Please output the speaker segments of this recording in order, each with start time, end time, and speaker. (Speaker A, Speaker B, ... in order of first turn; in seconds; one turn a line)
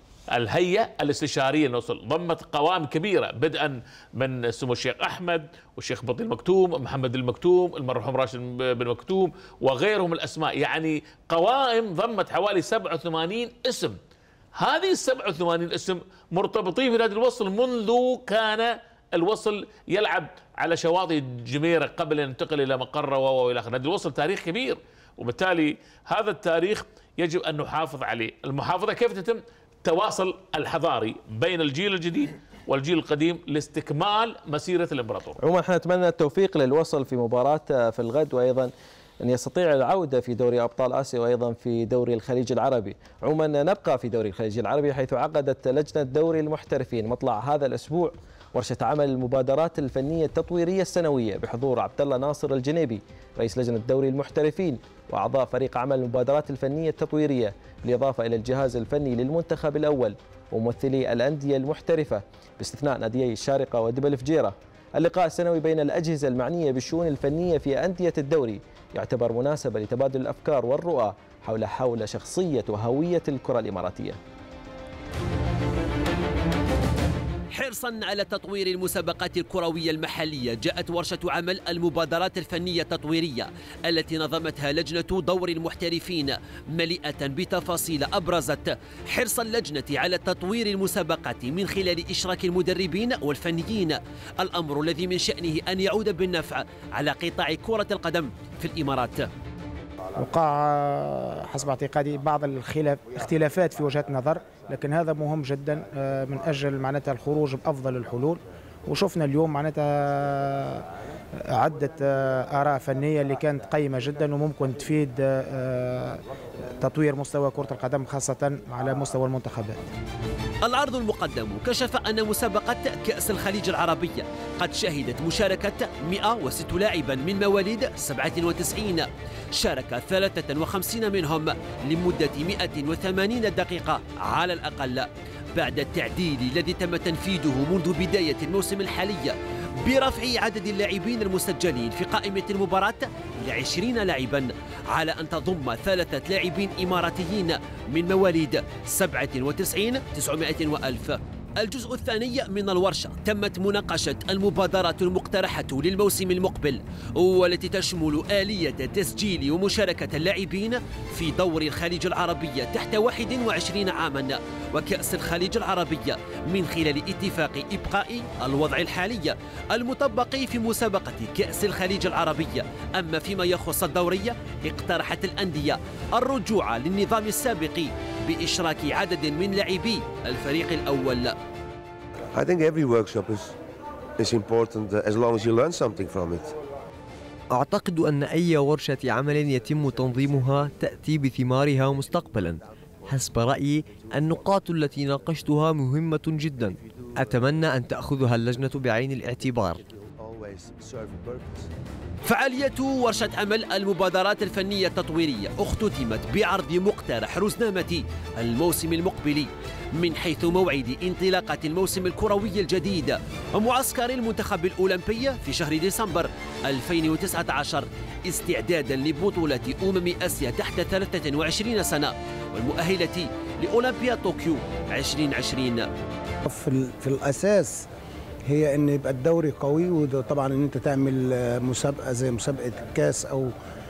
Speaker A: 0.3-14.0
Speaker A: 14.6-35.4
Speaker B: 35.4-74.2
Speaker C: 77.5-99.3
Speaker D: 100.2-110.8
Speaker D: 111.4-116.2
Speaker D: 116.8-119.9
Speaker C: 120.6-181.3
Speaker E: 182.3-183.6
Speaker E: 184.2-186.5
Speaker F: 187.5-199.8
Speaker C: 202.2-225.9
Speaker G: 226.4-227.8
Speaker G: 228.5-233.5